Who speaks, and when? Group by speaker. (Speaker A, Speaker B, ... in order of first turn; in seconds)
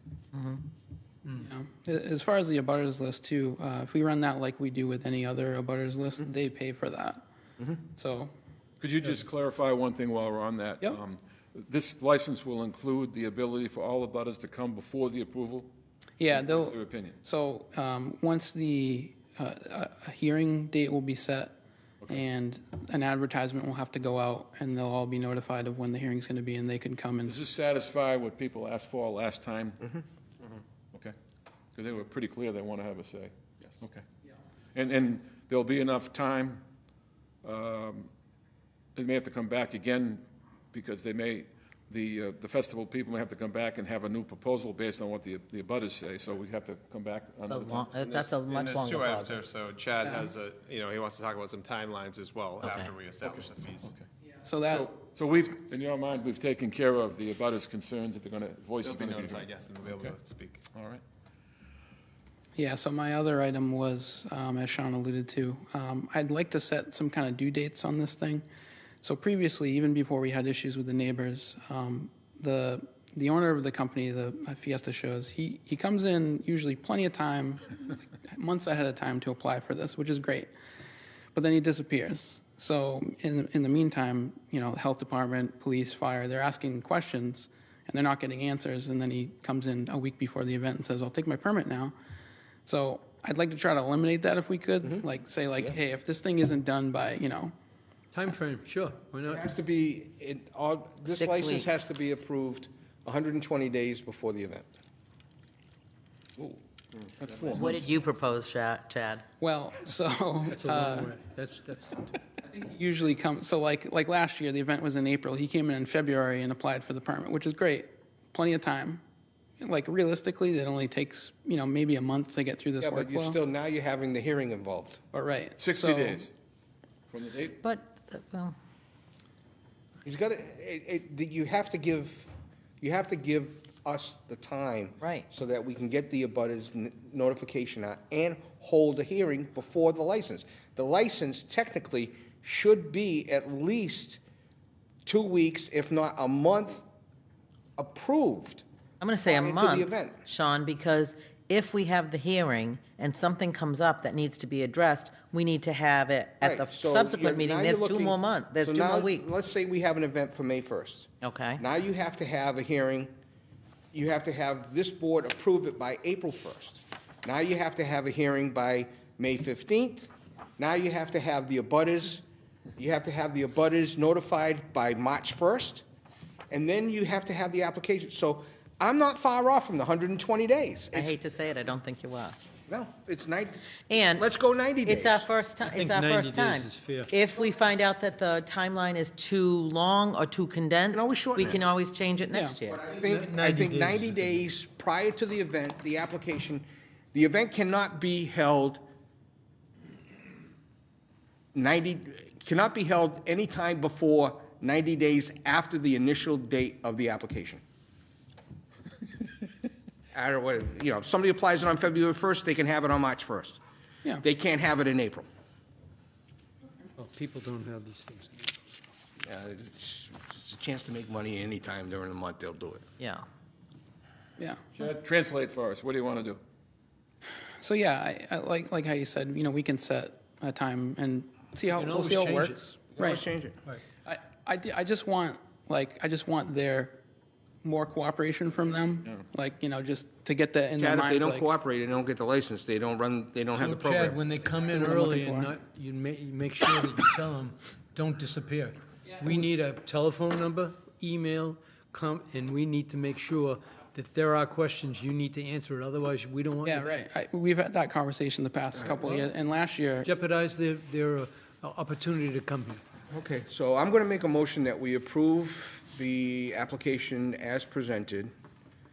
Speaker A: 0.3-0.6, 47.5-49.4, 52.6-52.9, 101.1-101.8, 107.5-109.2, 127.6-128.5, 135.0-135.3, 149.0-159.4, 161.2-161.6, 180.9-182.4, 183.9-184.2, 184.8-192.9, 223.0-223.2
Speaker B: 1.4-7.2, 7.9-8.3, 16.2-21.5, 22.1-27.4, 54.4-54.9, 62.6-68.4, 69.0-77.6, 78.3-80.5, 81.3-92.0, 92.7-97.5, 109.4-111.1, 112.5-119.0, 119.6-123.4, 125.1-126.2, 224.4-224.6, 227.6-233.2, 234.0-237.0, 237.6-241.5, 244.7-245.5, 256.6-260.1
Speaker C: 8.8-15.7, 16.3-17.1, 27.2-30.0, 31.8-34.0, 34.7-36.6, 37.4-38.1, 39.0-47.9, 53.2-54.0, 54.7-60.1, 60.7-61.0, 107.2-108.0, 125.6-126.3, 127.1-127.6, 224.8-226.4
Speaker D: 47.9-53.9, 58.8-60.6
Speaker E: 98.1-99.4, 110.5-112.2, 185.6-187.1, 192.9-194.5, 217.0-218.5, 231.8-232.6, 243.5-256.9, 260.0-262.8
Speaker F: 99.3-104.7, 107.3-107.7, 122.8-125.0, 130.0-132.3, 132.8-144.2, 145.0-146.8, 147.8-148.6, 149.2-150.2, 156.4-163.1, 163.9-172.2, 172.8-175.8, 176.5-181.1, 182.7-185.3, 190.9-191.6, 192.7-198.8, 201.5-207.6, 210.1-213.6, 214.2-215.3, 219.2-222.8, 232.9-233.6, 240.8-244.2, 263.1-268.3